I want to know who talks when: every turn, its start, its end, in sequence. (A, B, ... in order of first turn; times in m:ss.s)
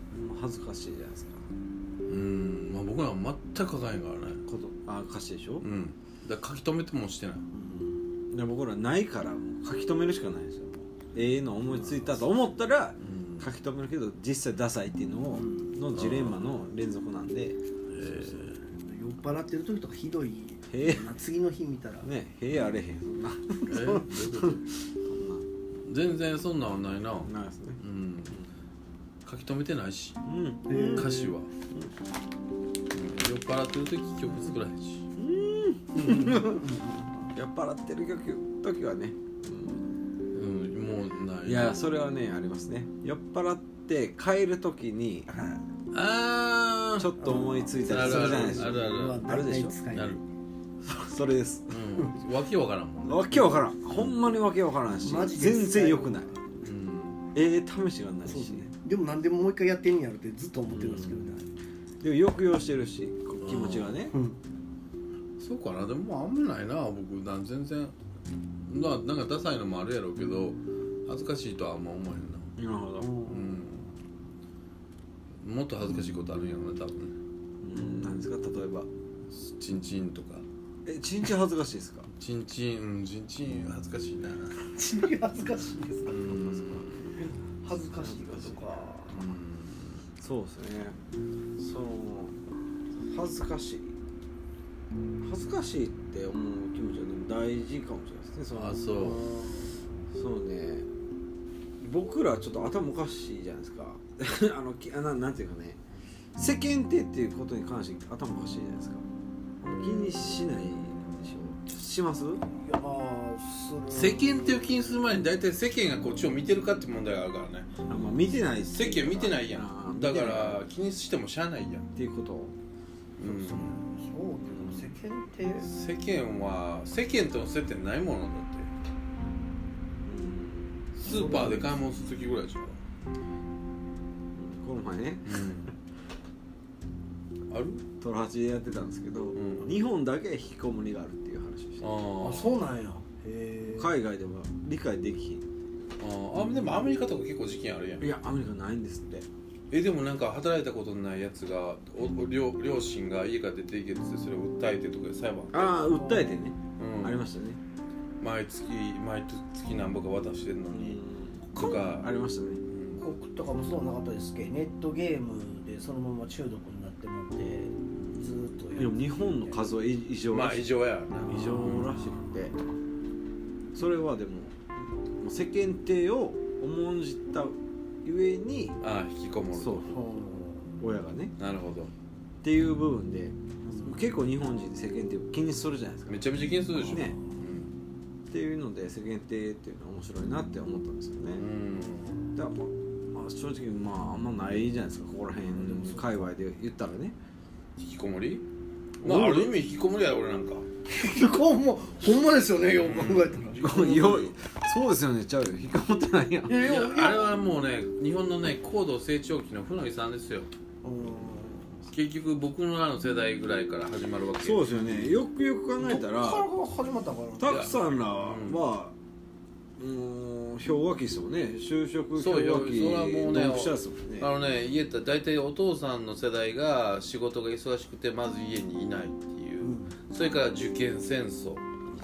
0:00.1-0:01.5 A
0:02.1-0:04.4 B
0:04.5-0:05.6 A
0:05.6-0:07.4 B
0:07.5-0:08.0 C
0:08.3-0:17.6 A
0:13.0-0:13.5 B
0:15.3-0:15.8 C
0:15.9-0:16.6 B
0:17.9-0:18.6 B
0:18.7-0:22.1 C
0:20.7-0:21.1 A
0:22.0-0:25.5 A
0:23.7-0:24.6 B
0:25.9-0:28.4 B
0:27.2-0:28.5 A
0:29.2-0:30.2 B
0:30.2-0:31.1 A
0:30.7-0:31.4 C
0:30.8-0:31.5 B
0:32.9-0:35.1 B
0:35.2-0:36.6 A
0:36.0-0:36.4 B
0:36.2-0:37.3 C
0:37.3-0:40.0 A
0:40.3-0:41.8 B
0:41.4-0:45.3 A
0:45.9-0:47.1 B
0:47.0-0:49.8 A
0:47.2-0:50.2 C
0:47.8-0:49.3 B
0:49.9-0:50.2 B
0:50.8-0:52.1 A
0:51.7-0:54.2 B
0:53.1-0:56.3 A
0:55.0-0:56.7 C
0:56.6-0:57.2 B
0:57.3-0:58.7 A
0:58.2-1:01.5 C
1:00.7-1:01.2 A
1:02.0-1:04.1 A
1:03.4-1:04.0 B
1:04.1-1:04.4 C
1:05.4-1:07.9 B
1:08.7-1:12.5 B
1:12.6-1:13.2 A
1:13.0-1:13.7 C
1:13.3-1:13.9 B
1:15.4-1:17.2 B
1:17.6-1:18.9 A
1:19.3-1:20.4 B
1:20.9-1:22.1 A
1:22.1-1:24.6 B
1:24.7-1:26.3 C
1:26.1-1:27.1 B
1:26.2-1:27.1 A
1:27.2-1:29.2 C
1:27.9-1:28.7 A
1:29.1-1:30.0 B
1:30.2-1:31.0 A
1:31.6-1:32.4 A
1:33.0-1:34.0 A
1:35.2-1:39.2 A
1:38.5-1:39.2 B
1:39.0-1:39.9 C
1:40.1-1:40.9 A
1:41.8-1:45.8 A
1:46.4-1:49.0 A
1:49.6-1:52.4 A
1:52.5-1:54.7 C
1:53.9-1:57.7 B
1:57.9-2:00.6 A
1:58.7-2:01.9 B
2:02.0-2:02.6 A
2:03.2-2:03.7 B
2:03.2-2:05.7 C
2:04.5-2:04.9 A
2:05.6-2:08.7 B
2:10.1-2:11.8 A
2:11.0-2:12.8 B
2:14.4-2:15.6 A
2:15.2-2:15.7 B
2:17.5-2:17.8 B
2:18.0-2:22.0 A
2:19.3-2:19.7 B
2:21.8-2:22.6 B
2:22.2-2:24.0 C
2:23.7-2:25.4 A
2:26.0-2:28.1 B
2:28.0-2:29.3 A
2:29.7-2:35.8 B
2:35.5-2:37.6 A
2:35.7-2:36.4 C
2:36.8-2:37.2 B
2:38.2-2:41.0 B
2:40.7-2:42.6 A
2:41.5-2:42.1 B
2:42.7-2:43.0 B
2:43.0-2:49.6 C
2:48.8-2:50.7 A
2:50.3-2:51.9 B
2:51.2-2:52.6 A
2:53.8-2:54.6 A
2:55.2-2:58.8 A
2:58.8-3:00.0 B
2:59.5-3:00.0 A
2:59.9-3:00.7 C
3:00.8-3:01.3 A
3:01.4-3:01.9 B
3:02.4-3:06.3 A
3:03.6-3:04.1 C
3:06.1-3:07.8 B
3:06.7-3:07.4 C
3:06.9-3:07.2 A
3:08.3-3:11.5 A
3:11.4-3:12.3 B
3:12.4-3:17.2 A
3:15.5-3:16.3 C
3:17.8-3:18.4 B
3:19.0-3:19.6 C
3:19.0-3:20.7 B
3:20.9-3:23.6 C
3:22.7-3:24.4 B
3:23.6-3:26.6 A
3:26.4-3:27.3 C
3:26.6-3:30.5 B
3:30.8-3:31.8 C
3:31.9-3:34.8 B
3:34.4-3:36.5 A
3:35.8-3:37.6 C
3:37.4-3:39.0 A
3:37.4-3:38.6 B
3:39.8-3:44.3 A
3:42.2-3:51.7 B
3:49.6-3:49.9 C